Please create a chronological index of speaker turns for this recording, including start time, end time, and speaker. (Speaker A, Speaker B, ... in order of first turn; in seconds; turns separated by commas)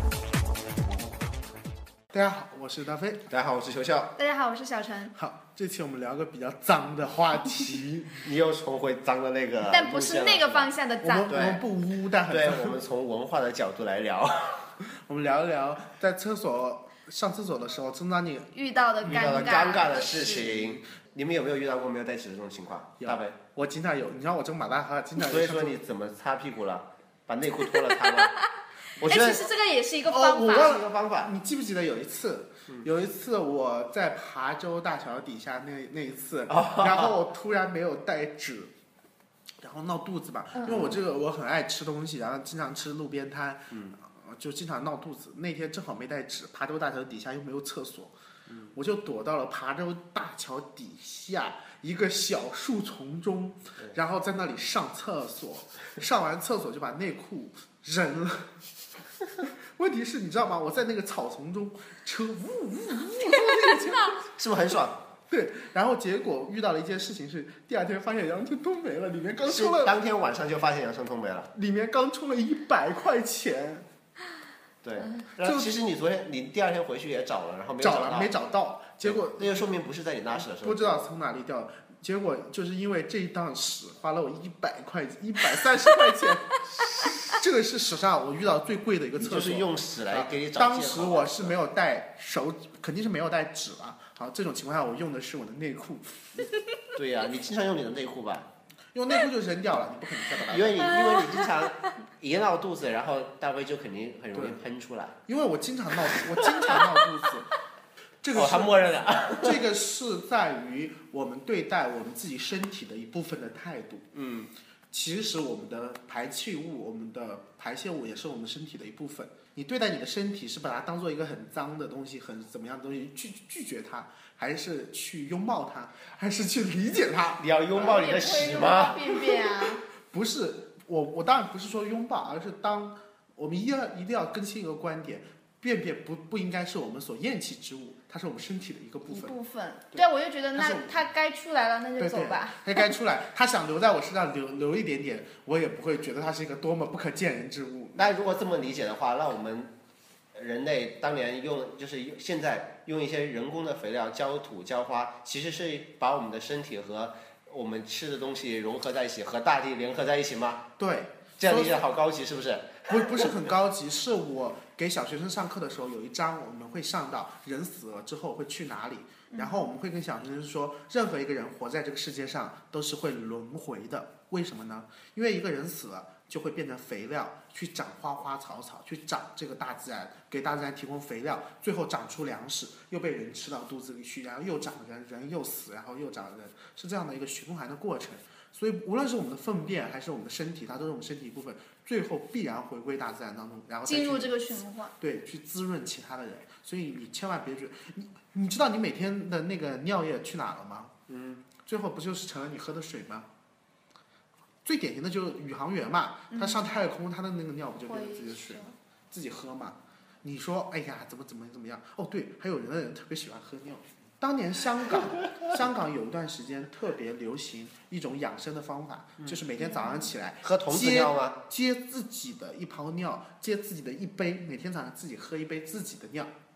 Speaker A: 2.1-3.2, Speaker B: 3.3-4.1, Speaker C: 4.2-5.1, Speaker A: 5.1-8.2, Speaker B: 8.2-10.7, Speaker C: 9.7-11.4, Speaker A: 11.0-12.8, Speaker B: 11.2-11.6, Speaker B: 12.3-14.7, Speaker A: 14.8-18.5, Speaker C: 18.5-20.6, Speaker B: 19.0-23.3, Speaker A: 23.0-25.8, Speaker B: 25.2-28.4, Speaker C: 27.8-28.2, Speaker B: 29.0-29.4, Speaker C: 29.0-30.8, Speaker A: 30.1-38.7, Speaker B: 30.4-31.3, Speaker B: 36.5-37.2, Speaker A: 39.6-48.1, Speaker B: 40.7-41.0, Speaker A: 48.7-58.5, Speaker A: 59.7-64.2, Speaker B: 64.2-65.0, Speaker A: 65.3-70.0, Speaker B: 69.5-71.5, Speaker A: 71.5-73.8, Speaker B: 74.8-78.3, Speaker A: 75.4-75.7, Speaker A: 77.8-79.6, Speaker B: 79.0-81.0, Speaker A: 80.3-96.5, Speaker B: 89.2-91.5, Speaker B: 97.0-98.5, Speaker A: 98.9-101.1, Speaker B: 100.5-105.1, Speaker C: 100.9-101.6, Speaker A: 104.3-104.6, Speaker A: 105.2-107.5, Speaker B: 106.0-106.9, Speaker A: 108.2-108.8, Speaker B: 108.3-109.6, Speaker A: 109.4-114.1, Speaker B: 114.1-114.5, Speaker A: 114.9-127.5, Speaker B: 127.4-129.1, Speaker C: 127.7-129.8, Speaker A: 130.1-139.3, Speaker C: 139.1-142.8, Speaker A: 139.9-140.9, Speaker A: 142.0-148.0, Speaker B: 147.9-149.7, Speaker B: 150.3-160.7, Speaker A: 160.8-161.8, Speaker B: 161.4-163.3, Speaker A: 162.9-194.3, Speaker C: 169.3-169.7, Speaker C: 193.9-194.9, Speaker A: 195.0-200.9, Speaker B: 201.1-201.4, Speaker A: 201.6-203.3, Speaker A: 204.6-226.3, Speaker C: 206.3-206.8, Speaker C: 207.9-208.7, Speaker C: 219.7-220.1, Speaker B: 220.4-221.4